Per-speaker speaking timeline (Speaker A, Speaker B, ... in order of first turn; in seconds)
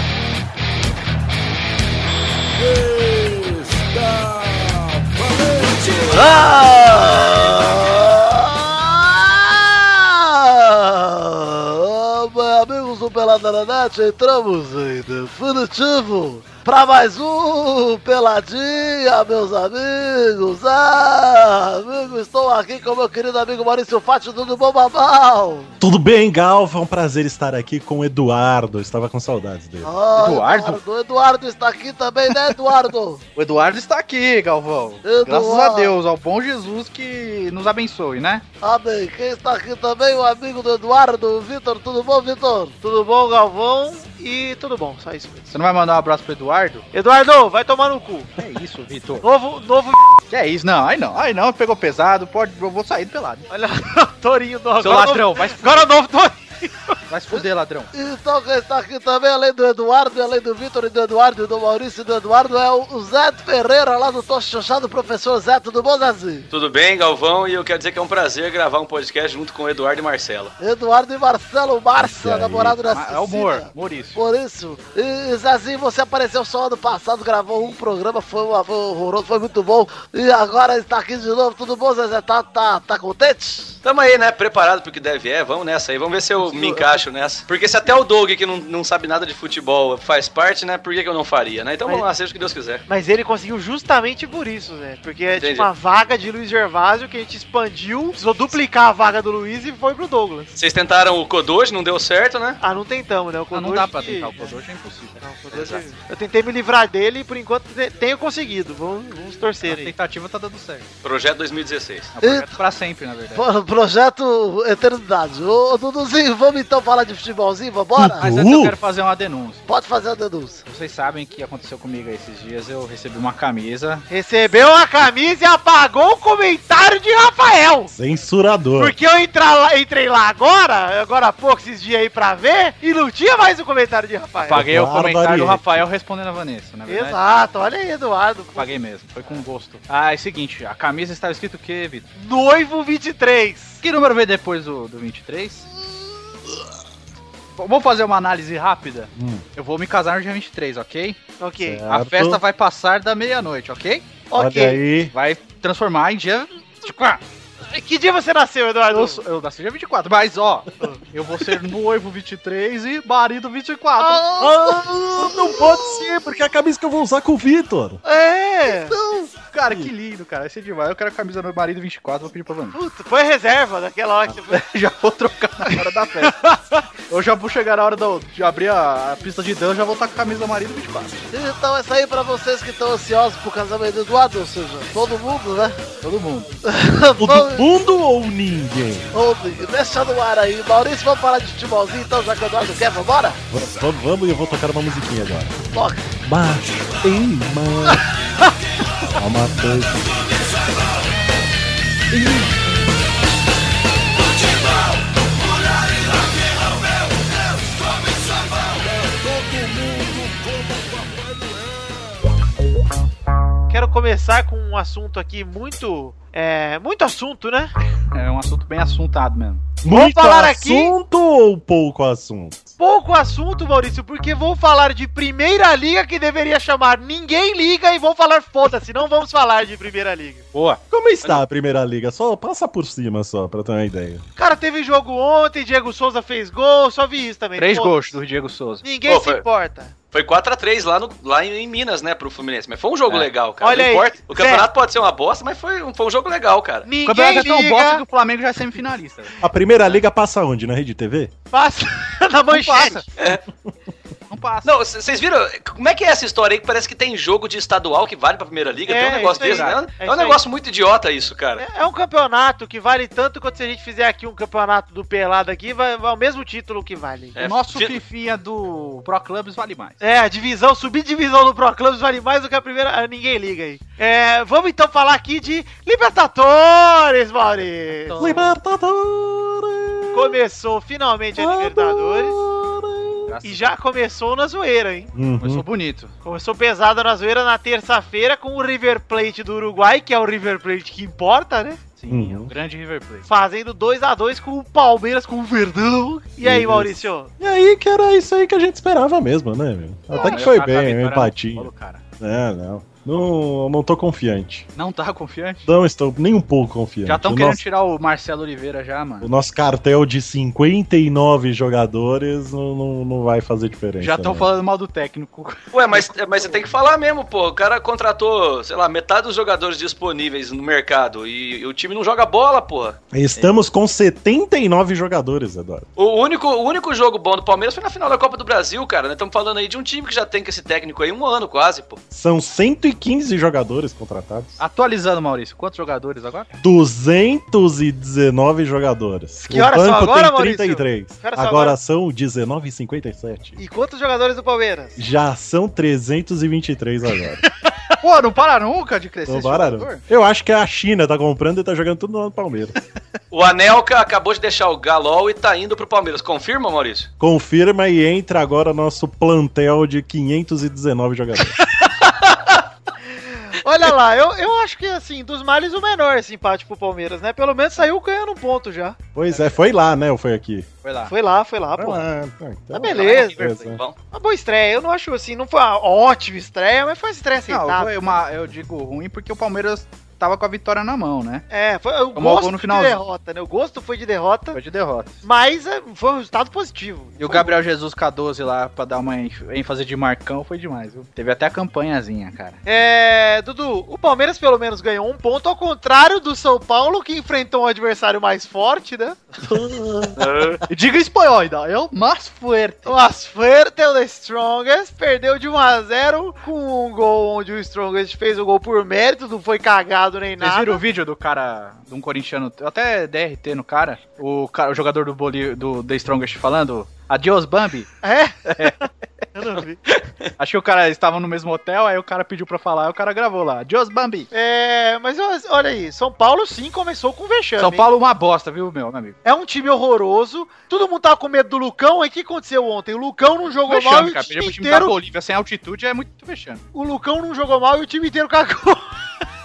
Speaker A: 2.5-6.7, 208.1-212.0
Speaker B: 6.1-25.7, 29.8-33.2, 35.0-36.0, 38.6-42.8, 57.9-66.5, 70.6-83.8, 112.2-112.6, 113.3-118.3, 119.7-120.6, 164.6-165.6, 181.3-185.8, 189.1-193.4, 195.7-196.1
Speaker C: 25.8-29.9, 72.0-72.8, 118.0-118.7, 127.9-128.9, 134.5-135.8, 149.2-149.4, 151.6-152.4, 154.3-155.1, 164.4-168.0, 187.2-189.1, 193.5-195.6, 196.2-198.0, 199.1-200.3, 219.8-222.7, 230.9-234.2, 249.4-251.3, 278.2-280.4, 281.4-283.3, 285.1-285.6, 292.1-292.5, 296.4-304.7, 305.7-307.6, 309.2-314.5, 323.1-325.9, 332.1-334.6, 336.6-343.6, 345.0-347.5, 349.3-352.8, 357.2-361.6, 369.1-370.7, 371.8-373.8, 399.4-400.2
Speaker D: 30.1-30.8, 33.4-38.4, 45.5-46.8, 48.4-49.3, 50.3-53.4, 54.8-55.9, 57.1-57.9, 72.8-74.2, 103.5-105.2, 109.6-110.9, 112.2-113.4, 118.2-119.6, 120.7-124.0, 134.4-137.2, 138.6-142.1, 143.8-145.7, 147.6-151.2, 151.9-154.0, 155.1-157.2, 158.9-164.3, 168.9-172.8, 174.3-181.2, 186.0-186.5, 202.1-202.4, 218.1-219.7, 230.5-230.8, 237.6-238.8, 247.0-249.4, 252.5-253.0, 254.3-254.7, 259.2-259.8, 267.4-270.0, 278.1-278.5, 283.3-283.8, 285.4-286.1, 292.0-293.3, 300.1-302.0, 304.7-305.7, 307.1-309.3, 314.0-316.6, 334.6-336.5, 348.0-350.0, 370.8-371.1, 377.5-381.4, 382.1-383.0, 384.5-385.1, 387.2-392.6, 400.7-402.9, 410.4-417.9, 418.5-418.9, 420.4-424.3, 427.6-429.1, 433.6-436.6
Speaker E: 42.8-45.5, 46.9-48.3, 49.2-50.2, 53.5-57.0, 86.4-87.0, 92.9-100.5, 102.6-104.5, 105.2-109.9, 124.1-127.9, 128.8-134.7, 136.9-139.3, 142.2-143.8, 151.4-151.8, 154.3-154.8, 157.7-159.2, 164.0-164.6, 168.0-169.0, 172.7-174.7, 175.7-176.6, 186.7-187.5, 213.7-217.7, 219.9-220.9, 222.8-230.4, 234.3-238.2, 238.8-239.9, 243.6-244.7, 246.8-248.0, 251.5-253.0, 258.9-260.4, 261.6-267.4, 270.0-278.2, 280.1-282.4, 283.4-285.1, 286.2-291.8, 293.2-297.3, 300.1-300.4, 339.4-341.7, 343.6-345.0, 363.2-369.0, 371.1-372.0, 372.7-373.4, 374.1-378.1, 381.5-384.6, 385.2-387.5, 392.6-399.2, 402.9-410.8, 418.0-419.8, 424.3-427.9, 429.2-434.9, 436.7-438.8
Speaker F: 66.5-70.5, 83.8-92.8, 95.4-95.7, 100.5-102.6, 105.5-105.8, 111.0-112.1, 239.1-239.4, 240.1-246.9, 254.6-261.6, 267.4-268.0, 315.7-323.0, 326.0-332.0, 353.3-357.1, 372.9-373.9, 400.2-400.6